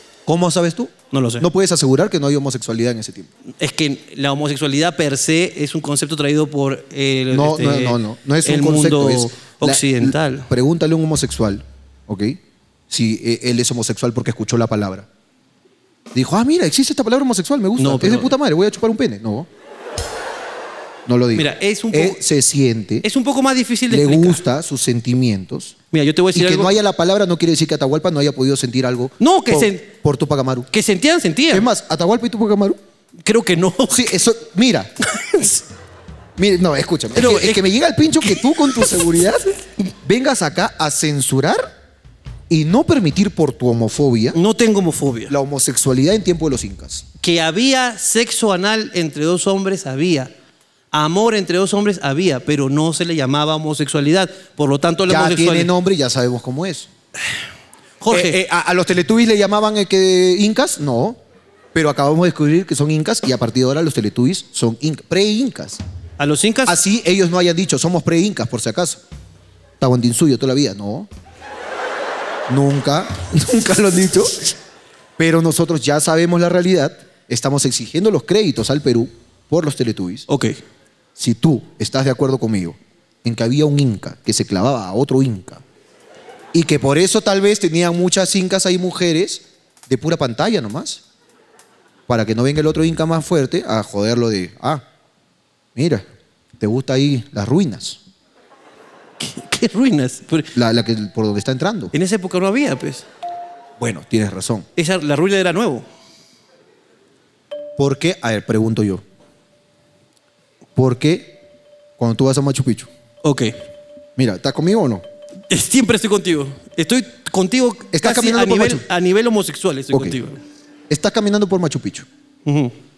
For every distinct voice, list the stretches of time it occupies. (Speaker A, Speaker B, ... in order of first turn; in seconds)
Speaker A: 0.3-3.3, 7.3-12.4, 12.9-15.1, 16.1-19.5, 21.1-23.1, 23.9-25.8, 26.3-30.7, 31.5-32.8, 33.9-34.9, 36.4-41.7, 42.5-44.4, 45.3-47.1, 55.1-56.9, 58.1-61.2, 61.7-65.8, 66.7-69.0, 69.8-71.1, 72.5-74.5, 75.2-80.2, 81.2-85.6, 86.5-91.0, 92.1-94.8, 95.8-96.0, 96.6-98.0, 100.5-101.9, 103.8-104.7, 107.8-109.0, 110.8-111.4, 112.0-112.9, 114.2-115.0, 117.9-118.8, 119.9-120.2, 120.9-122.1
Speaker B: 1.1-1.5, 3.6-10.5, 17.8-18.3, 21.4-22.2, 23.0-24.4, 25.9-26.7, 29.2-29.9, 30.7-31.7, 33.2-34.0, 35.1-35.6, 37.1-37.6, 38.2-38.6, 44.3-45.3, 47.2-50.3, 50.9-55.7, 58.0-58.4, 66.2-66.8, 80.3-80.6, 99.2-100.5, 101.9-103.1, 104.8-105.8, 113.2-113.6, 115.5-120.4, 122.5-122.7